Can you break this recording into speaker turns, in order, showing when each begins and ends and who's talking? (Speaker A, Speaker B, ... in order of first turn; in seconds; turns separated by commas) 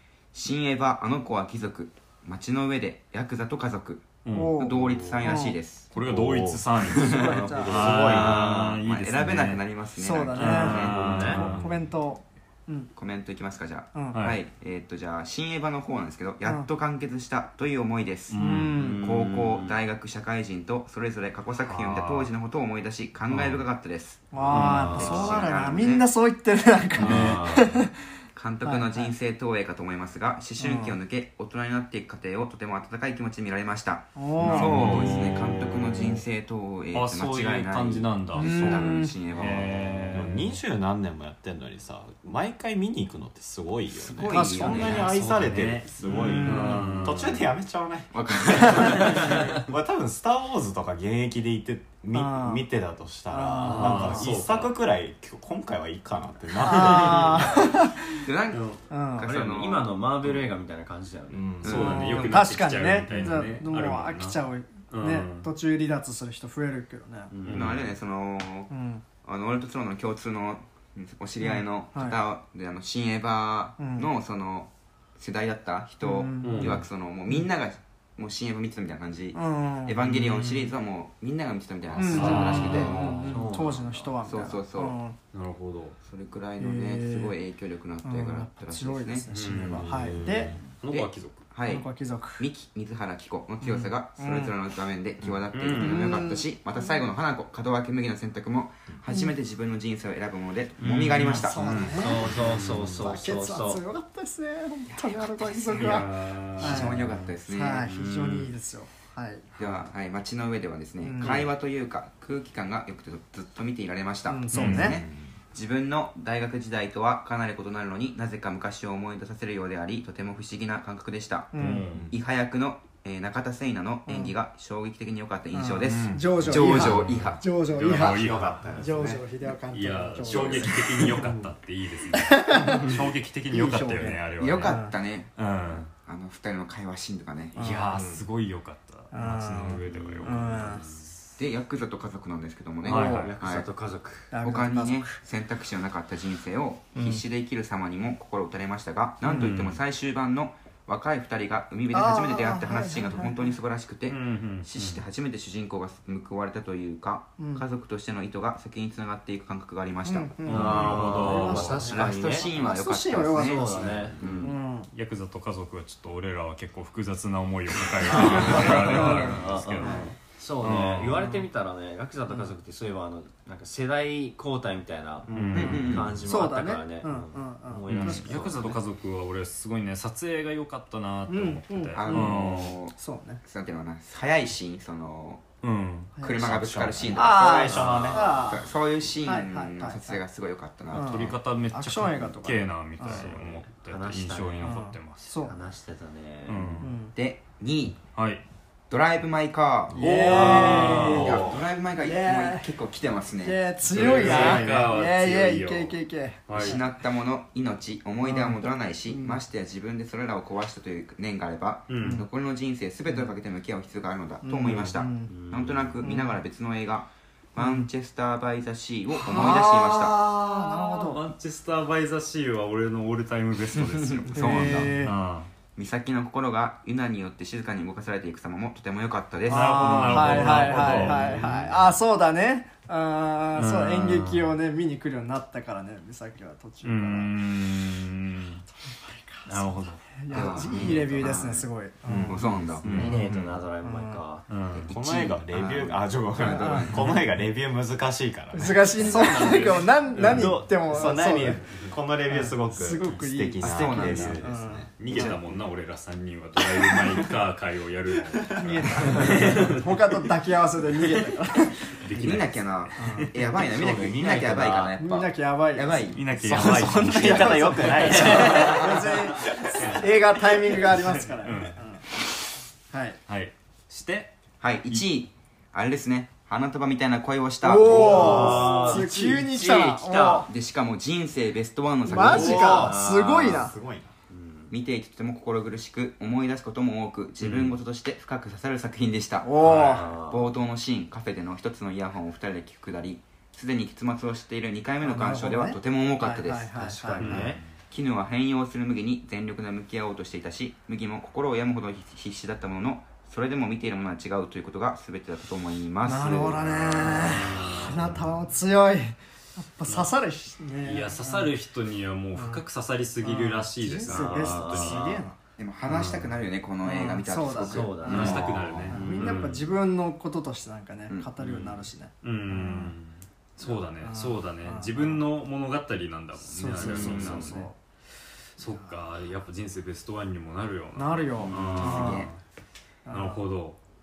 Speaker A: 0.3-5.9, Speaker B: 4.2-5.3, Speaker C: 4.3-5.6, Speaker B: 5.9-9.6, Speaker D: 5.9-8.5, Speaker C: 7.0-7.9, Speaker E: 7.2-8.8, Speaker A: 8.1-11.4, Speaker C: 10.0-12.9, Speaker B: 10.4-11.7, Speaker E: 10.5-11.6, Speaker A: 12.9-18.4, Speaker B: 14.1-14.4, Speaker B: 18.3-18.8, Speaker C: 18.3-19.0, Speaker E: 18.7-19.8, Speaker A: 18.9-26.1, Speaker B: 21.6-22.3, Speaker C: 24.3-28.1, Speaker B: 24.5-25.3, Speaker E: 24.5-25.3, Speaker E: 27.0-27.8, Speaker B: 27.0-27.5, Speaker A: 28.3-40.1, Speaker C: 28.6-29.1, Speaker C: 30.6-31.0, Speaker C: 34.1-35.4, Speaker B: 34.4-36.2, Speaker B: 36.9-40.6, Speaker C: 38.3-39.2, Speaker D: 40.1-57.6, Speaker A: 43.9-47.0, Speaker C: 44.3-45.1, Speaker B: 44.8-47.5, Speaker C: 46.3-46.9, Speaker A: 48.1-49.6, Speaker B: 49.0-49.5, Speaker E: 49.1-49.4, Speaker C: 52.1-52.7, Speaker C: 53.3-54.3, Speaker B: 53.6-54.7, Speaker C: 56.6-58.2, Speaker E: 57.2-57.7, Speaker A: 58.2-60.5, Speaker B: 58.5-58.8, Speaker C: 58.9-59.3, Speaker E: 59.2-61.7, Speaker D: 61.3-61.9, Speaker A: 61.6-62.4, Speaker B: 61.6-64.4, Speaker C: 61.8-67.3, Speaker B: 64.9-65.5, Speaker E: 67.3-67.8, Speaker B: 67.4-67.9, Speaker A: 67.5-68.7, Speaker C: 68.7-69.0, Speaker A: 69.2-83.4, Speaker C: 71.4-72.2, Speaker C: 73.8-74.1, Speaker C: 76.0-76.8, Speaker B: 76.4-76.8, Speaker C: 79.3-80.0, Speaker B: 80.0-80.7, Speaker C: 82.0-85.2, Speaker B: 82.1-83.3, Speaker E: 82.6-84.1, Speaker A: 84.2-85.0, Speaker B: 85.3-86.0, Speaker A: 86.0-89.9, Speaker C: 86.6-87.3, Speaker C: 88.0-90.5, Speaker B: 89.3-89.8, Speaker D: 89.7-90.6, Speaker B: 90.8-91.5, Speaker A: 90.9-101.9, Speaker C: 91.7-92.5, Speaker C: 93.6-94.5, Speaker B: 95.5-96.1, Speaker C: 95.7-97.0, Speaker B: 100.8-103.0, Speaker E: 100.9-101.3, Speaker C: 101.2-102.3, Speaker E: 101.9-103.8, Speaker C: 102.9-109.4, Speaker A: 105.0-107.9, Speaker B: 105.8-107.3, Speaker A: 109.6-127.4, Speaker C: 111.0-111.4, Speaker C: 114.3-115.0, Speaker B: 114.5-115.0, Speaker D: 114.8-115.3, Speaker C: 121.5-121.9, Speaker B: 121.6-122.1, Speaker C: 124.1-124.3, Speaker C: 125.5-131.3, Speaker B: 125.8-128.7, Speaker D: 127.7-129.2, Speaker B: 129.7-134.8, Speaker A: 130.2-130.7, Speaker C: 132.1-132.9, Speaker C: 133.5-134.9, Speaker A: 134.4-135.4, Speaker B: 135.3-135.9, Speaker A: 135.9-137.6, Speaker C: 137.5-137.9, Speaker B: 137.6-141.3, Speaker E: 137.9-138.2, Speaker C: 139.1-140.8, Speaker E: 139.9-141.1, Speaker A: 141.4-143.7, Speaker B: 142.8-143.3, Speaker C: 142.8-143.3, Speaker E: 143.0-144.3, Speaker C: 144.3-145.2, Speaker A: 144.4-160.4, Speaker C: 146.9-147.2, Speaker C: 149.2-149.7, Speaker C: 151.9-153.5, Speaker B: 154.1-155.0, Speaker C: 157.4-157.6, Speaker C: 160.0-163.9, Speaker B: 160.4-161.9, Speaker E: 160.5-162.5, Speaker A: 161.8-164.6, Speaker E: 163.2-164.5, Speaker C: 164.4-164.9, Speaker B: 164.9-171.3, Speaker E: 168.0-178.8, Speaker C: 168.1-170.1, Speaker B: 175.3-176.1, Speaker D: 175.3-176.0, Speaker A: 175.5-176.2, Speaker C: 176.2-178.7, Speaker B: 177.9-182.8, Speaker C: 181.3-182.3, Speaker A: 181.9-185.4, Speaker C: 182.9-183.4, Speaker B: 185.6-186.9, Speaker C: 186.2-186.4, Speaker A: 186.2-191.3, Speaker E: 186.4-187.1, Speaker D: 187.1-188.5, Speaker C: 187.1-188.6, Speaker E: 187.7-188.4, Speaker C: 189.2-190.2, Speaker C: 190.9-193.3, Speaker B: 190.9-195.3, Speaker E: 193.0-194.7, Speaker C: 194.6-195.5, Speaker E: 195.4-196.9, Speaker B: 196.4-196.9, Speaker C: 196.8-197.1, Speaker A: 197.1-198.0, Speaker B: 198.1-198.4, Speaker A: 198.9-204.7, Speaker C: 199.9-201.4, Speaker B: 200.0-201.6, Speaker E: 200.3-201.4, Speaker C: 202.0-202.7, Speaker C: 203.4-206.8, Speaker B: 203.9-206.8, Speaker A: 206.5-220.2, Speaker C: 208.2-209.4, Speaker B: 211.9-212.2, Speaker C: 212.0-212.3, Speaker C: 213.1-213.3, Speaker C: 214.4-215.3, Speaker E: 215.2-216.0, Speaker C: 216.0-216.4, Speaker C: 217.6-217.9, Speaker C: 219.2-221.2, Speaker B: 219.3-225.5, Speaker A: 223.7-225.0, Speaker C: 224.3-225.1, Speaker A: 225.7-230.9, Speaker C: 229.5-237.3, Speaker B: 229.5-231.7, Speaker B: 233.6-234.5, Speaker B: 236.8-238.6, Speaker C: 238.8-239.5, Speaker B: 239.4-240.0, Speaker C: 240.2-242.4, Speaker A: 240.3-241.7, Speaker A: 242.2-243.1, Speaker B: 242.8-243.6, Speaker E: 242.8-244.6, Speaker C: 243.8-244.2, Speaker B: 244.5-244.9, Speaker A: 244.7-247.2, Speaker D: 244.9-249.6, Speaker C: 246.4-247.0, Speaker C: 248.5-251.6, Speaker B: 249.0-250.6, Speaker D: 250.2-255.5, Speaker E: 250.2-251.6, Speaker C: 252.3-254.9, Speaker A: 253.6-254.5, Speaker B: 255.0-259.8, Speaker D: 258.5-259.5, Speaker C: 258.6-261.9, Speaker B: 262.0-263.3, Speaker A: 262.1-266.3, Speaker C: 263.0-263.3, Speaker E: 263.4-265.0, Speaker C: 265.0-266.1, Speaker B: 266.1-268.7, Speaker E: 266.4-269.7, Speaker D: 266.7-268.7, Speaker A: 267.2-267.8, Speaker C: 267.3-272.0, Speaker A: 268.5-268.9, Speaker B: 269.7-270.1, Speaker B: 270.7-271.8, Speaker C: 272.9-273.2, Speaker B: 273.3-274.3, Speaker A: 274.6-278.9, Speaker C: 277.6-280.5, Speaker E: 277.8-280.5, Speaker D: 277.9-278.9, Speaker A: 280.5-282.9, Speaker C: 282.0-283.7, Speaker D: 282.1-284.1, Speaker E: 282.7-283.7, Speaker E: 284.3-284.7, Speaker A: 284.7-307.5, Speaker B: 287.4-287.7, Speaker C: 289.4-290.1, Speaker B: 289.6-290.0, Speaker E: 289.7-290.5, Speaker C: 295.0-297.4, Speaker E: 296.8-297.6, Speaker B: 297.2-297.6, Speaker C: 306.0-311.5, Speaker B: 307.1-308.2, Speaker B: 310.8-315.1, Speaker C: 312.3-312.6, Speaker C: 313.2-315.4, Speaker E: 314.0-315.3, Speaker A: 315.6-318.9, Speaker B: 315.9-316.3, Speaker C: 316.8-322.9, Speaker E: 317.6-319.5, Speaker B: 318.0-319.7, Speaker B: 321.4-327.7, Speaker C: 324.0-325.2, Speaker C: 326.4-327.8, Speaker E: 326.8-327.4, Speaker A: 326.9-327.3, Speaker B: 328.6-332.4, Speaker C: 328.6-328.9, Speaker C: 330.9-332.3, Speaker E: 331.5-332.0, Speaker A: 331.5-332.3, Speaker C: 333.1-333.4, Speaker B: 333.1-333.8